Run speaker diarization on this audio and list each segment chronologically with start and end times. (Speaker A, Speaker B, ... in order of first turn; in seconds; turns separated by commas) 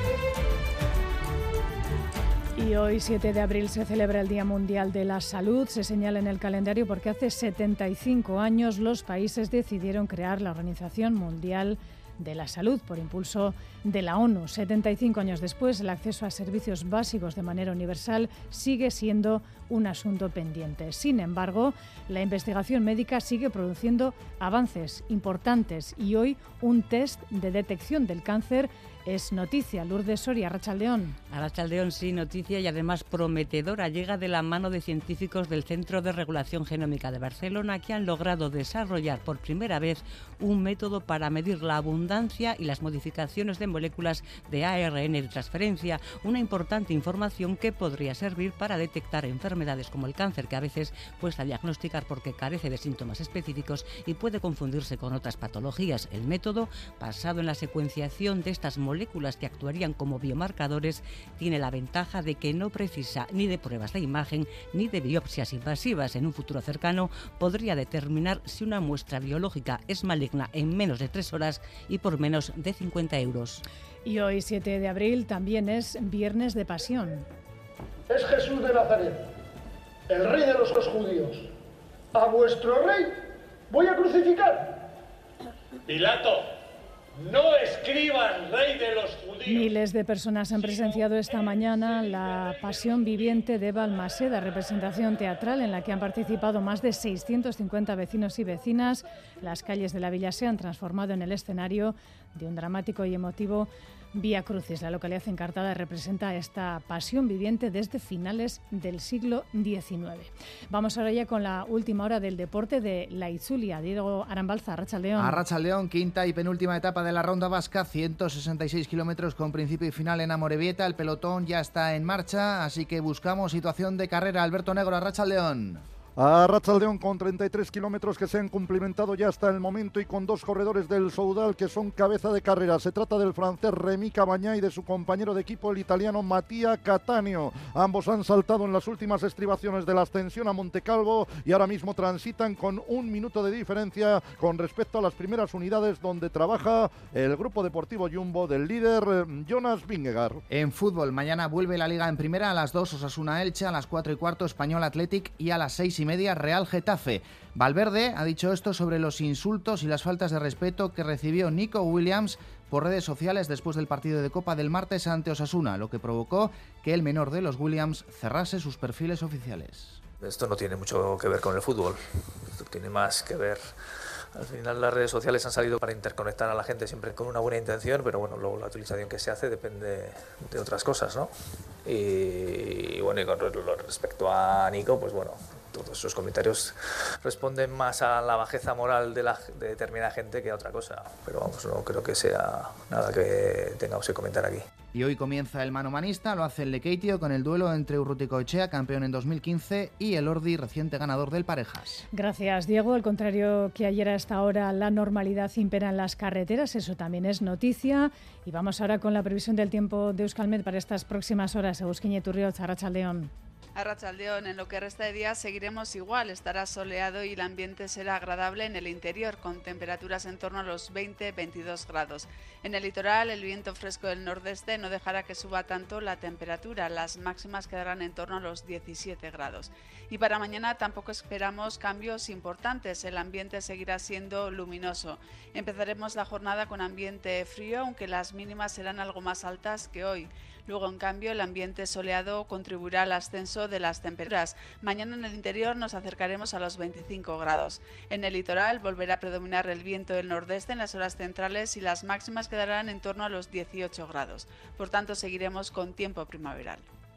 Speaker A: 2.6-31.2, Speaker B: 31.3-73.6, Speaker A: 74.0-77.3, Speaker C: 78.1-79.2, Speaker C: 80.1-81.5, Speaker C: 82.2-83.1, Speaker C: 83.7-84.7, Speaker D: 85.9-86.4, Speaker D: 87.2-89.5, Speaker A: 89.4-115.4, Speaker E: 115.2-125.8, Speaker F: 126.2-150.4, Speaker E: 150.5-170.0, Speaker G: 170.2-172.0, Speaker G: 172.5-173.6, Speaker G: 174.3-181.3, Speaker G: 181.8-194.7, Speaker E: 194.9-202.0, Speaker A: 202.1-213.3, Speaker H: 213.8-256.8